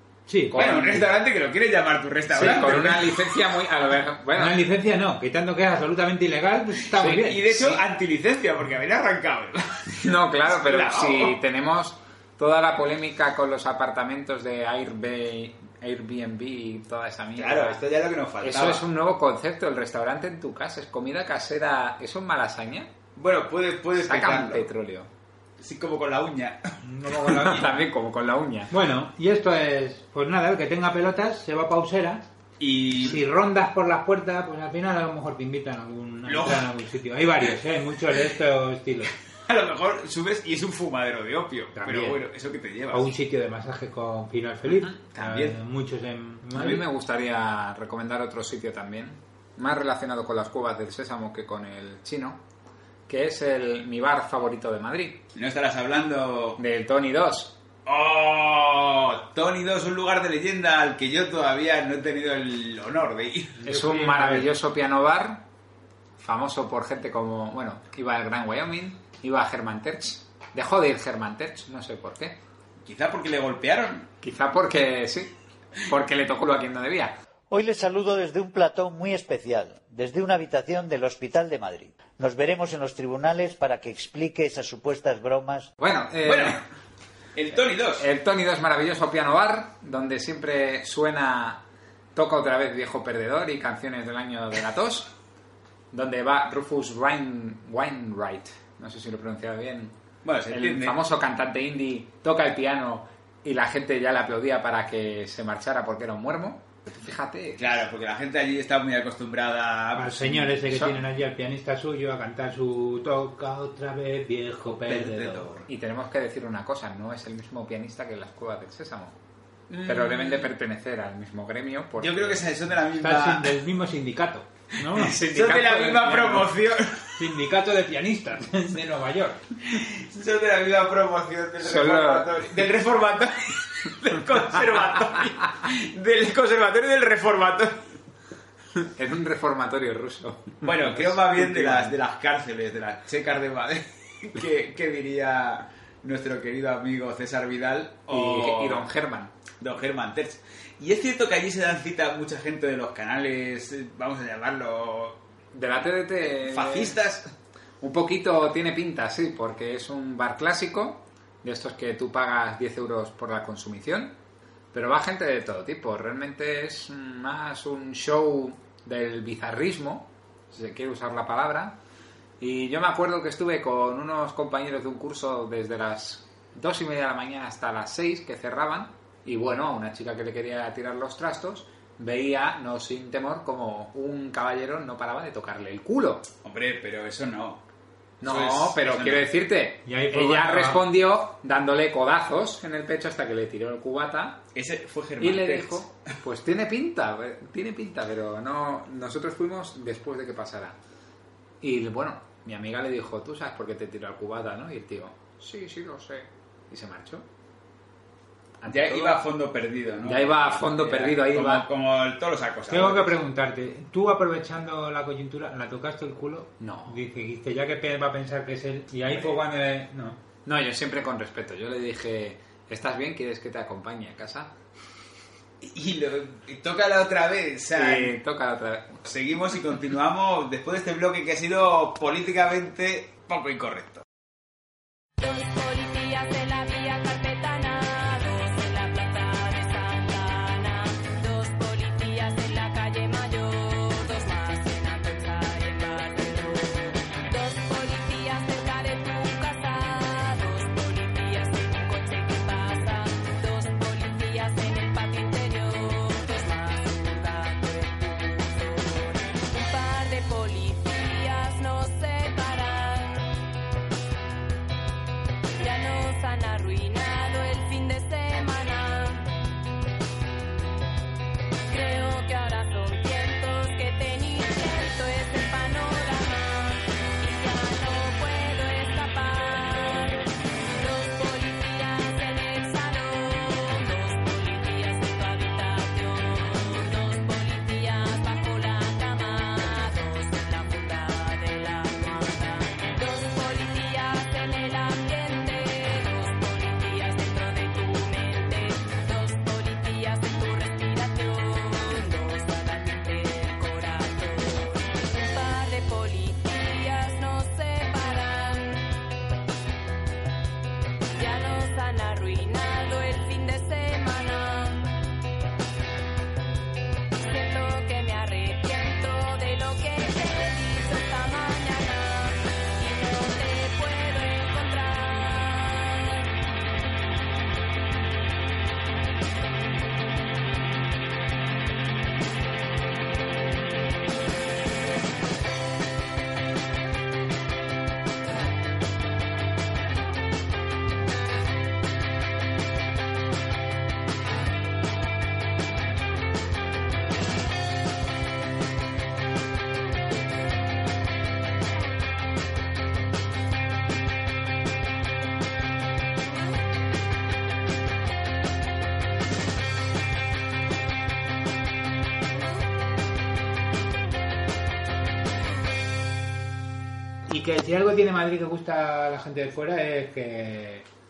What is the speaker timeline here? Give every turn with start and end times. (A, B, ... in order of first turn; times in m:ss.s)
0:00.3-0:00.6 A
0:00.5-0:01.1 B
0:00.6-0:03.3 C
0:02.3-0:04.6 B
0:04.4-0:07.8 A
0:07.0-0:11.4 C
0:10.0-0:17.8 B
0:17.4-0:18.8 C
0:18.4-0:22.9 B
0:23.2-0:24.7 C
0:24.0-0:25.1 B
0:25.6-0:26.8 C
0:26.8-0:27.7 A
0:27.2-0:28.7 B
0:28.7-0:32.3 A
0:32.6-0:33.2 C
0:33.0-0:39.1 A
0:36.3-0:36.7 C
0:39.5-0:43.1 C
0:41.8-0:42.2 A
0:42.9-0:46.8 A
0:45.1-0:45.6 C
0:46.6-0:52.4 B
0:53.1-0:55.2 B
0:55.4-0:56.6 C
0:56.6-0:57.6 B
0:57.9-1:03.6 C
1:03.6-1:04.5 A
1:03.6-1:05.4 B
1:06.2-1:12.4 B
1:12.8-1:14.1 C
1:14.2-1:15.3 B
1:15.8-1:17.2 B
1:17.5-1:25.7 D
1:25.8-1:26.6 B
1:26.2-1:26.6 C
1:27.4-1:28.1 C
1:28.0-1:31.6 B
1:32.2-1:35.1 B
1:35.9-1:39.9 B
1:40.2-1:41.0 C
1:40.5-1:47.8 B
1:47.6-1:51.0 C
1:50.0-1:55.5 A
1:54.8-1:55.7 C
1:55.7-1:59.2 B
1:59.7-2:02.4 B
2:02.0-2:03.6 C
2:03.0-2:05.1 A
2:04.9-2:06.5 B
2:05.0-2:07.1 C
2:07.2-2:09.4 A
2:09.6-2:17.7 C
2:11.6-2:12.5 B
2:18.8-2:22.0 B
2:20.6-2:28.9 C
2:28.1-2:29.3 B
2:29.6-2:35.2 C
2:35.5-2:37.0 B
2:36.5-2:37.3 C
2:37.8-2:44.2 B
2:44.7-2:51.8 B
2:52.4-3:06.3 B
3:06.4-3:07.6 C
3:08.2-3:14.4 B
3:08.2-3:09.3 C
3:09.9-3:10.9 A
3:14.6-3:15.9 C
3:15.2-3:20.8 B
3:21.6-3:27.2 B
3:28.6-3:29.2 B
3:28.7-3:33.2 C
3:30.0-3:31.7 B
3:32.7-3:40.2 A
3:36.6-3:37.0 B
3:40.5-3:44.5 B
3:45.6-3:48.2 C
3:47.8-3:49.0 B
3:49.0-3:54.0 C
3:55.2-4:23.3 E
4:25.6-4:29.3 E
4:31.7-5:08.9 E
5:11.1-5:15.0 E
5:17.2-5:26.2 E
6:07.3-6:10.8 A